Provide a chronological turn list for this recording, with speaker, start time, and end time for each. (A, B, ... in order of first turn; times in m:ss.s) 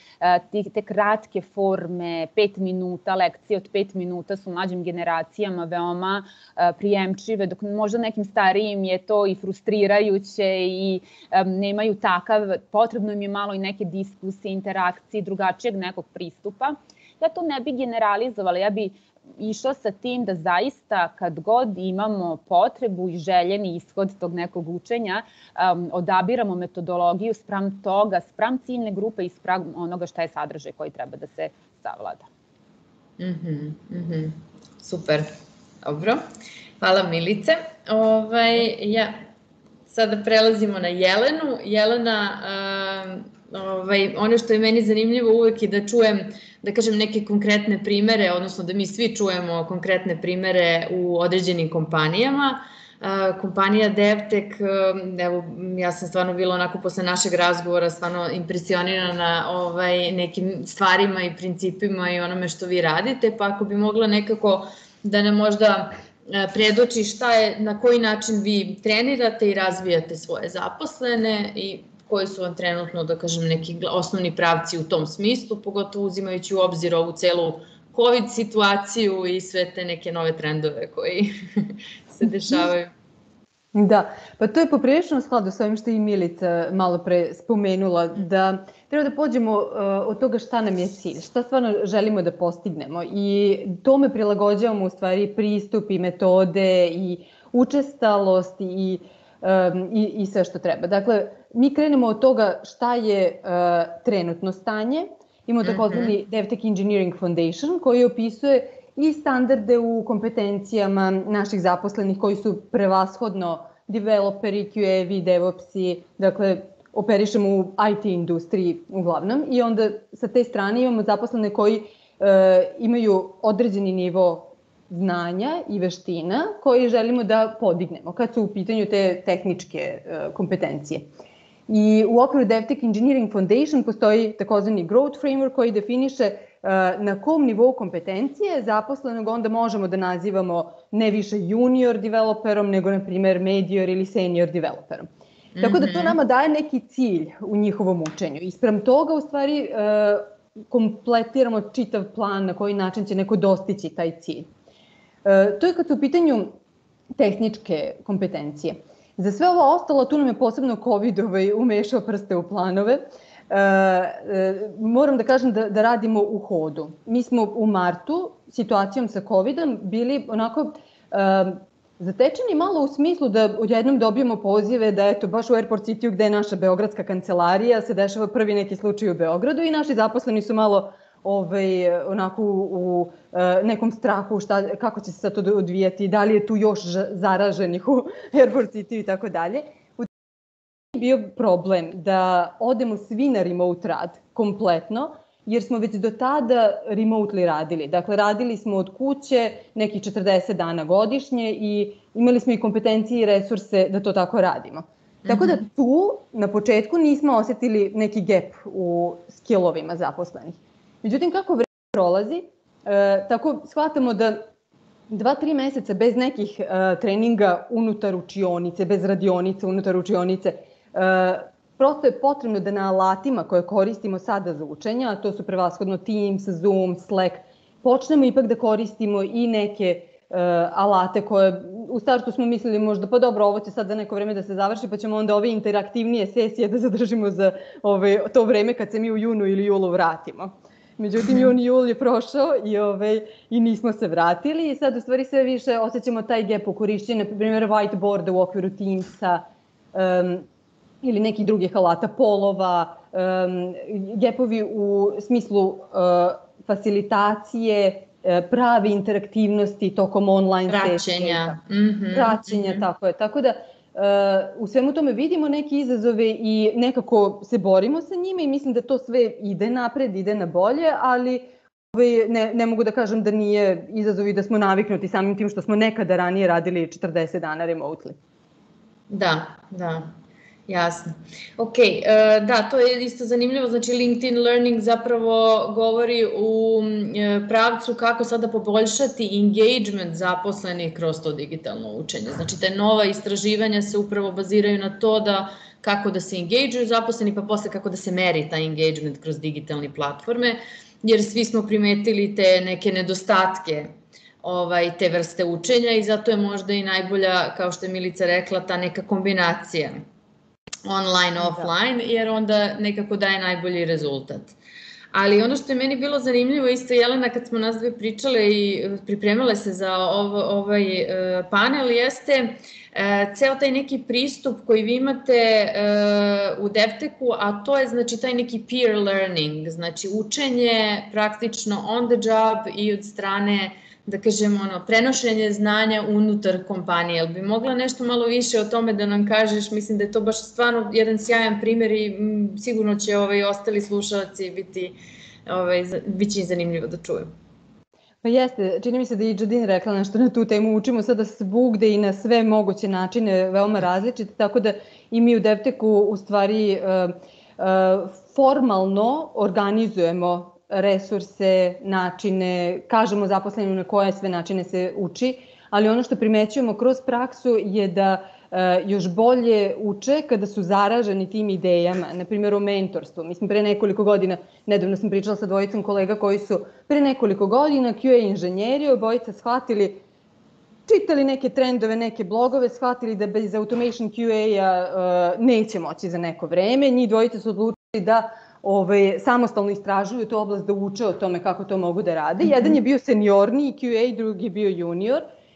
0:00.2-0:32.3 A
0:33.2-0:35.3 B
0:35.8-0:36.2 B
0:36.8-0:39.3 B
0:39.9-1:22.9 B
1:23.7-2:11.1 C
1:45.6-1:46.2 B
2:11.7-2:25.1 C
2:25.6-2:26.2 B
2:25.6-2:34.5 C
2:35.2-2:36.6 C
2:37.2-3:10.1 C
3:10.9-3:34.5 C
3:25.3-3:25.6 B
3:35.1-4:10.5 C
4:01.3-4:01.5 B
4:11.0-4:21.6 C
4:20.7-4:22.8 B
4:22.1-4:38.2 C
4:39.1-4:40.1 B
4:40.7-5:10.0 B
5:10.8-5:14.6 B
5:15.1-5:47.3 B
5:48.2-6:20.0 C
6:20.9-6:35.3 C